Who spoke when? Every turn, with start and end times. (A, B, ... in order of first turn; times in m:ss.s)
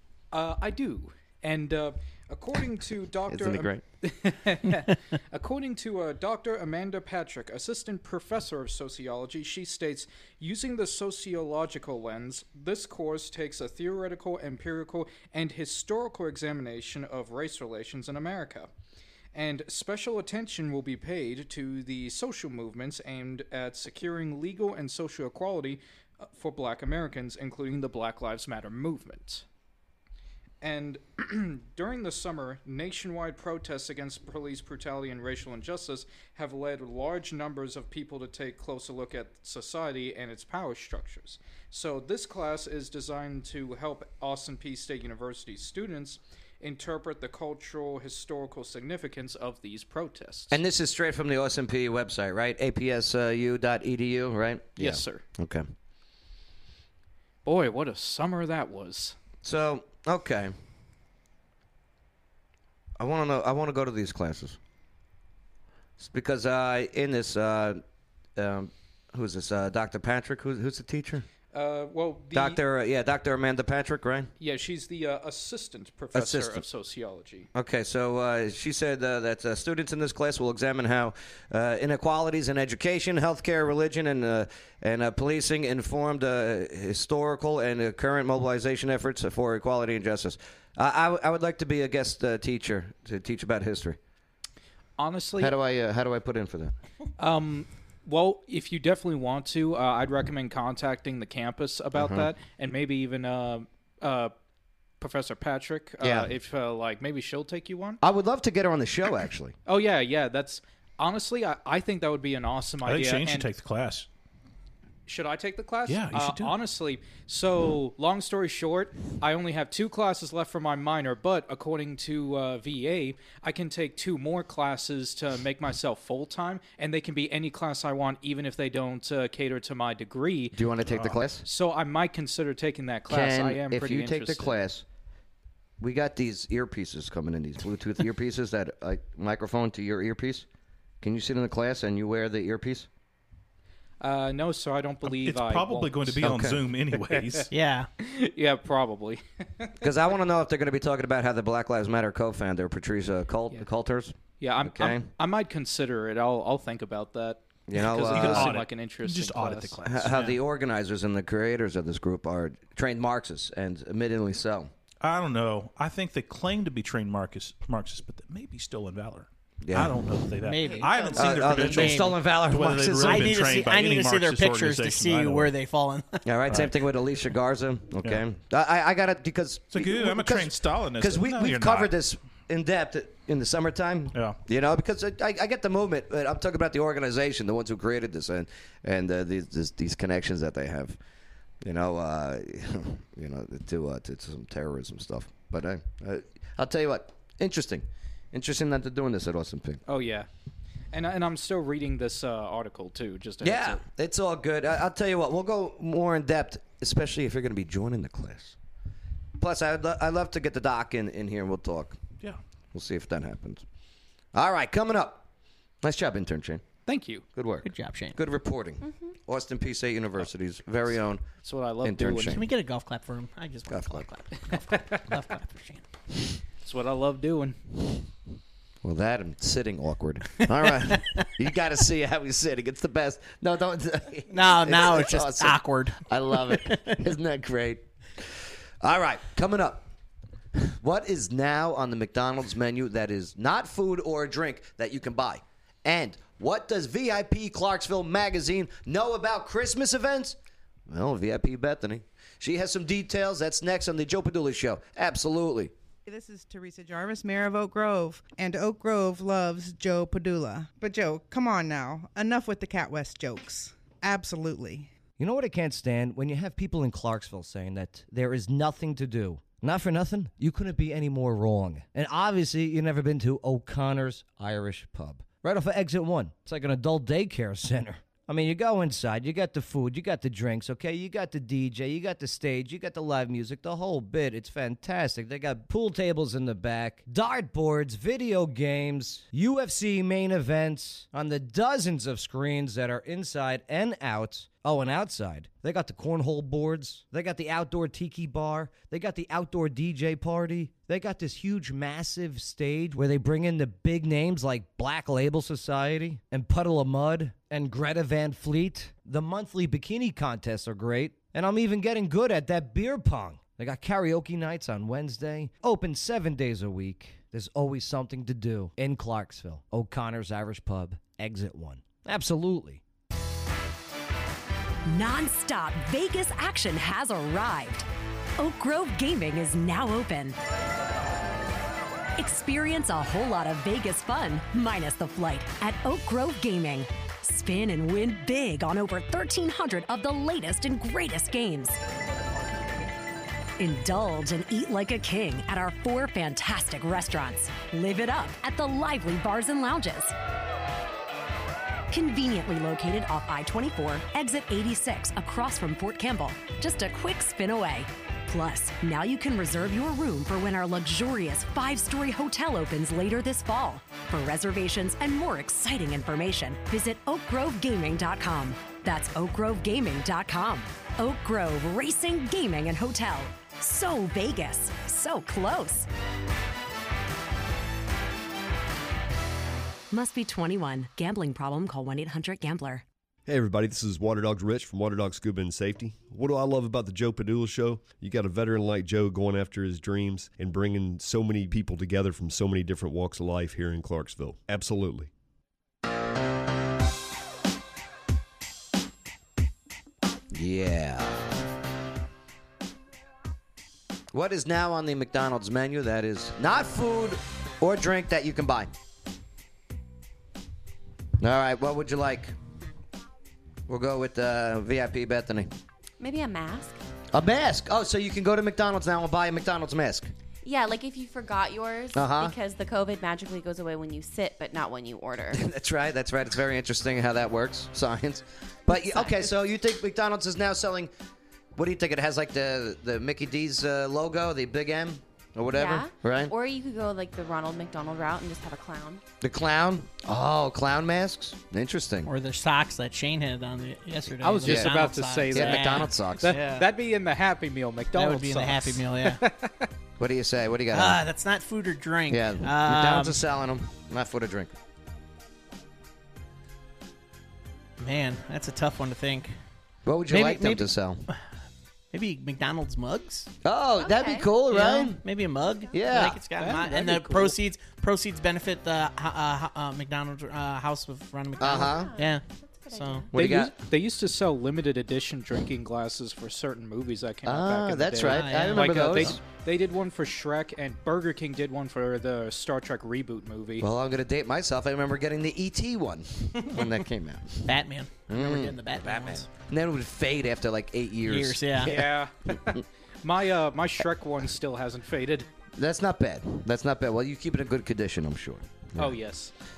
0:00.3-0:18.7 A
0:03.3-0:03.8 B
0:19.3-0:29.4 A
0:30.6-0:50.6 A
0:50.5-0:55.6 B
0:54.8-0:55.2 A
0:57.4-0:59.1 A
0:59.4-1:00.5 B
1:03.0-1:04.6 B
1:06.0-1:07.8 B
1:08.4-1:11.2 B
1:11.5-1:12.6 A
1:12.3-1:14.3 B
1:14.4-1:17.5 A
1:16.1-1:16.6 B
1:17.5-1:34.0 B
1:35.0-1:35.5 A
1:35.4-1:36.7 B
1:37.2-1:44.3 A
1:42.0-1:42.3 B
1:45.0-1:48.0 A
1:46.0-1:46.3 B
1:48.0-1:49.6 B
1:49.7-1:53.5 A
1:52.8-1:54.1 C
1:55.1-2:10.6 A
1:55.9-1:56.5 C
2:10.5-2:11.4 B
2:10.9-2:11.2 C
2:11.4-2:14.6 A
2:13.1-2:14.8 B
2:15.8-2:20.5 B
2:21.0-2:22.9 B
2:24.0-2:26.2 A
2:25.0-2:27.5 C
2:26.2-2:26.6 B
2:27.0-2:27.5 A
2:27.5-2:27.9 D
2:28.0-2:29.8 A
2:29.8-2:35.1 B
2:34.4-2:39.8 A
2:37.7-2:38.6 B
2:37.8-2:40.4 C
2:39.8-2:44.7 B
2:45.0-2:55.5 C
2:49.6-2:50.0 B
2:50.4-2:52.2 D
2:51.1-2:53.5 B
2:53.0-2:56.2 D
2:56.2-3:11.0 B
2:56.5-2:56.7 C
2:59.7-3:01.9 C
3:04.1-3:04.4 C
3:11.6-3:19.8 B
3:19.9-3:20.3 A
3:20.9-3:23.8 A
3:23.4-3:28.6 B
3:29.4-3:32.0 B
3:32.7-3:33.6 B
3:34.3-3:35.2 B
3:35.8-3:36.6 B
3:36.8-3:37.2 A
3:37.3-3:41.2 B
3:37.6-3:38.2 D
3:38.8-3:39.1 E
3:41.4-3:42.4 A
3:41.8-3:42.4 B
3:42.3-3:45.8 D
3:43.7-3:44.1 B
3:46.6-3:47.6 A
3:48.8-3:58.3 B
3:54.3-3:56.9 D
3:58.8-3:59.9 B
4:00.6-4:10.4 B
4:10.9-4:15.7 B
4:16.0-4:24.9 F
4:25.2-5:22.8 G
5:24.8-5:27.8 H
5:28.4-5:30.4 H
5:32.2-5:41.8 H
5:43.6-5:50.1 H
5:51.9-6:15.9 H
6:19.9-6:22.8 H
6:23.3-6:35.1 I
6:40.3-6:41.2 B
6:44.1-6:48.7 B
6:51.2-6:52.3 B
6:53.7-6:55.5 B
6:56.0-6:56.8 E
6:57.1-7:00.1 B
7:00.4-7:05.4 E
7:01.9-7:02.3 B
7:05.3-7:10.9 B
7:08.7-7:09.3 E
7:11.6-7:16.3 B
7:15.5-7:19.0 E
7:19.2-7:22.1 B
7:22.0-7:26.7 D
7:24.2-7:29.7 A
7:24.4-7:24.8 B
7:25.3-7:26.4 B
7:27.9-7:29.2 D
7:30.0-7:31.0 B
7:30.7-7:33.2 D
7:32.1-7:34.5 B
7:37.8-7:39.3 D
7:39.8-7:41.0 B
7:40.1-7:40.7 D
7:41.9-7:43.3 D
7:43.4-7:45.0 B
7:43.8-7:44.4 E
7:44.5-7:53.1 D
7:45.7-7:46.2 B
7:46.4-7:47.4 A
7:51.4-7:51.9 B
7:51.5-7:53.1 E
7:53.1-7:53.5 B
7:53.1-8:03.6 A
7:57.2-7:59.2 B
7:58.0-7:59.1 D
8:03.6-8:07.5 B
8:07.4-8:09.3 D
8:08.1-8:12.6 B
8:11.0-8:11.7 D
8:11.6-8:12.3 A
8:13.0-8:15.3 A
8:15.6-8:19.0 B
8:18.8-8:19.3 A